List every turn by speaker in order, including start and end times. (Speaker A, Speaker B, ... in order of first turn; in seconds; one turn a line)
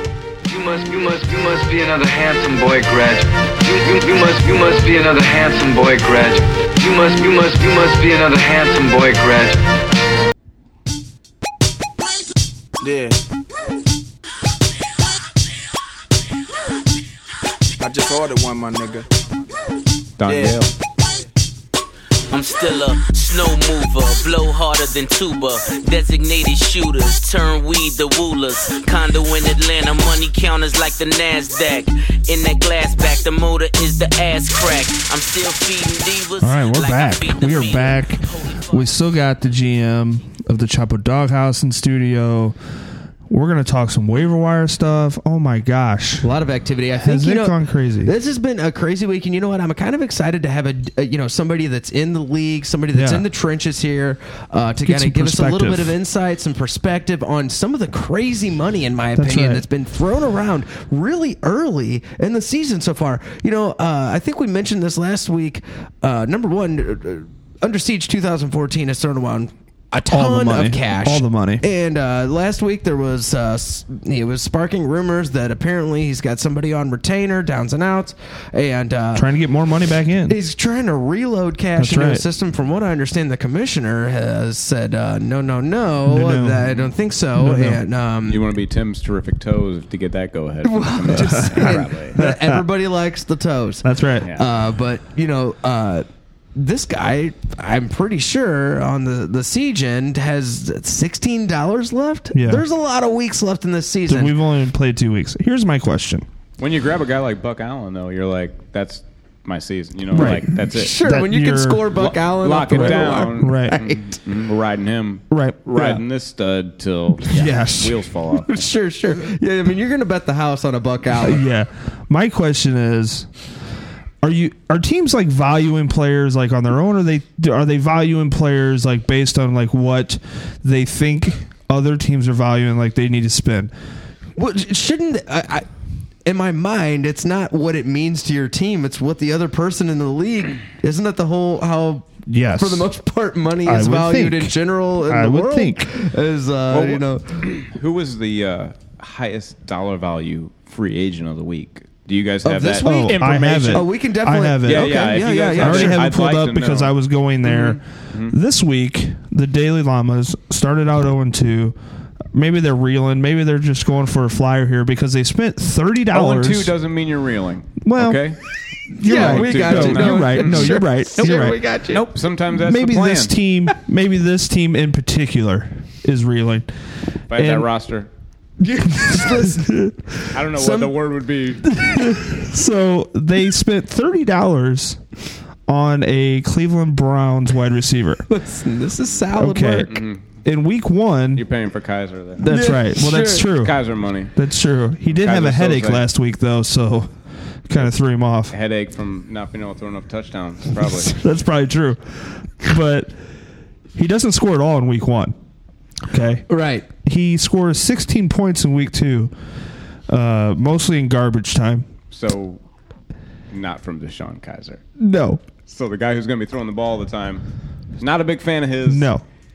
Speaker A: 0.5-9.6
Speaker A: 12.8-13.2
Speaker A: 17.8-19.1
Speaker B: 20.2-20.7
Speaker A: 20.3-20.6
Speaker C: 22.3-38.9
Speaker D: 36.4-42.6
Speaker D: 43.3-46.3
Speaker E: 46.2-79.3
Speaker D: 47.0-48.1
Speaker D: 52.9-53.2
Speaker D: 54.8-56.0
Speaker D: 59.2-59.6
Speaker D: 70.1-71.6
Speaker D: 79.2-80.4
Speaker E: 80.3-88.5
Speaker D: 81.8-82.2
Speaker D: 86.1-86.7
Speaker D: 87.3-87.8
Speaker B: 88.2-92.2
Speaker E: 90.7-104.3
Speaker D: 91.1-92.6
Speaker D: 93.8-94.3
Speaker D: 102.3-102.7
Speaker D: 104.1-106.2
Speaker B: 106.6-111.0
Speaker D: 110.1-112.0
Speaker E: 110.2-114.0
Speaker B: 111.9-118.5
Speaker D: 112.7-113.8
Speaker D: 115.3-115.6
Speaker E: 115.7-116.0
Speaker D: 117.3-118.0
Speaker E: 118.5-121.4
Speaker D: 121.2-123.3
Speaker D: 124.2-133.7
Speaker E: 134.4-135.7
Speaker E: 136.2-147.4
Speaker D: 142.3-142.9
Speaker D: 143.6-145.9
Speaker B: 146.7-153.9
Speaker E: 152.4-153.2
Speaker D: 152.8-161.8
Speaker E: 153.7-156.0
Speaker B: 154.6-156.9
Speaker B: 157.4-158.3
Speaker D: 162.3-166.8
Speaker B: 166.1-168.4
Speaker D: 167.8-168.3
Speaker D: 168.9-171.6
Speaker B: 169.0-173.3
Speaker E: 169.0-172.0
Speaker D: 172.5-176.7
Speaker B: 177.3-178.1
Speaker D: 177.3-177.7
Speaker E: 178.6-180.0
Speaker B: 180.3-181.8
Speaker E: 180.5-180.9
Speaker D: 181.8-185.0
Speaker D: 185.7-188.2
Speaker E: 188.3-189.9
Speaker D: 189.4-191.4
Speaker B: 189.9-190.2
Speaker B: 191.3-192.5
Speaker D: 192.4-193.8
Speaker E: 192.5-193.5
Speaker B: 193.4-194.3
Speaker D: 194.3-197.1
Speaker B: 195.1-196.0
Speaker D: 197.7-198.5
Speaker B: 198.5-201.2
Speaker D: 201.0-203.2
Speaker D: 203.9-205.4
Speaker D: 206.1-206.5
Speaker E: 206.5-206.8
Speaker D: 207.0-209.3
Speaker D: 210.1-211.9
Speaker B: 212.1-212.6
Speaker B: 213.5-214.8
Speaker D: 215.0-215.4
Speaker B: 215.7-217.4
Speaker B: 218.0-219.1
Speaker D: 218.9-219.2